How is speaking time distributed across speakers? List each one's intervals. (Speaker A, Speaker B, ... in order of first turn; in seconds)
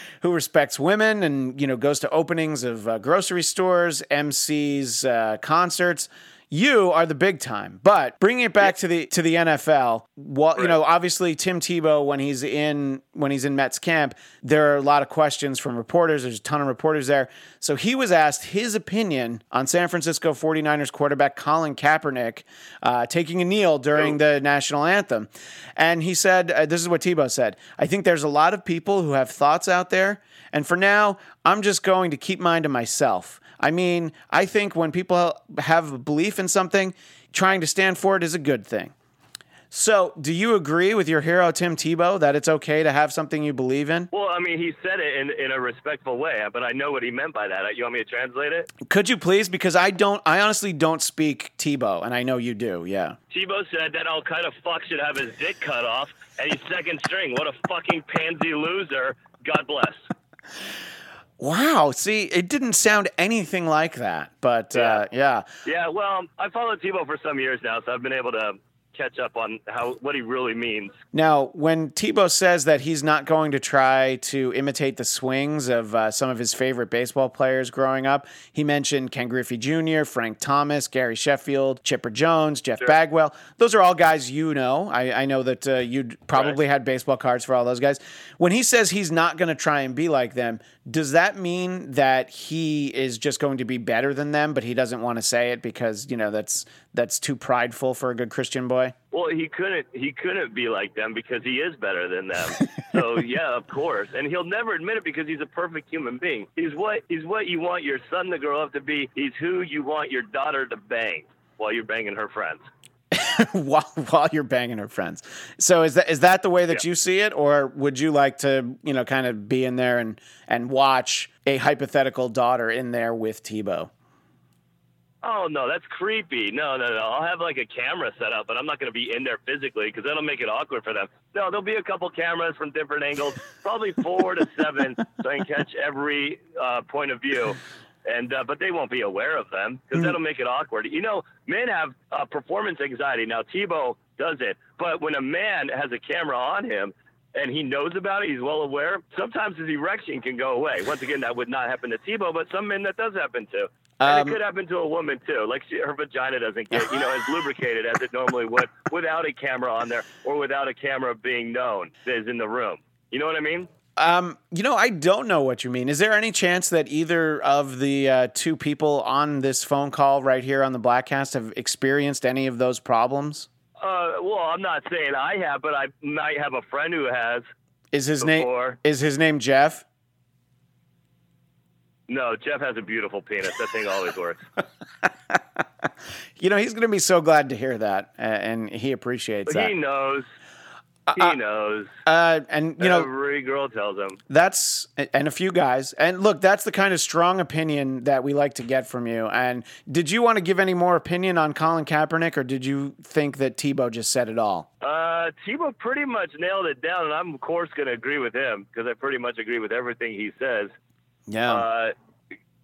Speaker A: 0.2-38.9, 39.7-44.1, 48.9-53.2, 61.4-65.5, 71.1-98.9, 113.1-123.9, 154.0-154.4, 164.0-173.5, 177.9-179.8, 186.4-189.7, 191.1-191.4, 192.1-193.1, 194.3-204.7, 211.3-211.7
Speaker B: 44.1-48.7, 53.3-60.0, 64.8-65.0, 65.7-71.0, 99.1-112.6, 125.2-163.7, 173.8-177.5, 178.2-178.8, 182.1-184.4, 189.5-190.3, 191.2-191.9, 192.8-194.2, 204.8-210.7, 211.5-211.9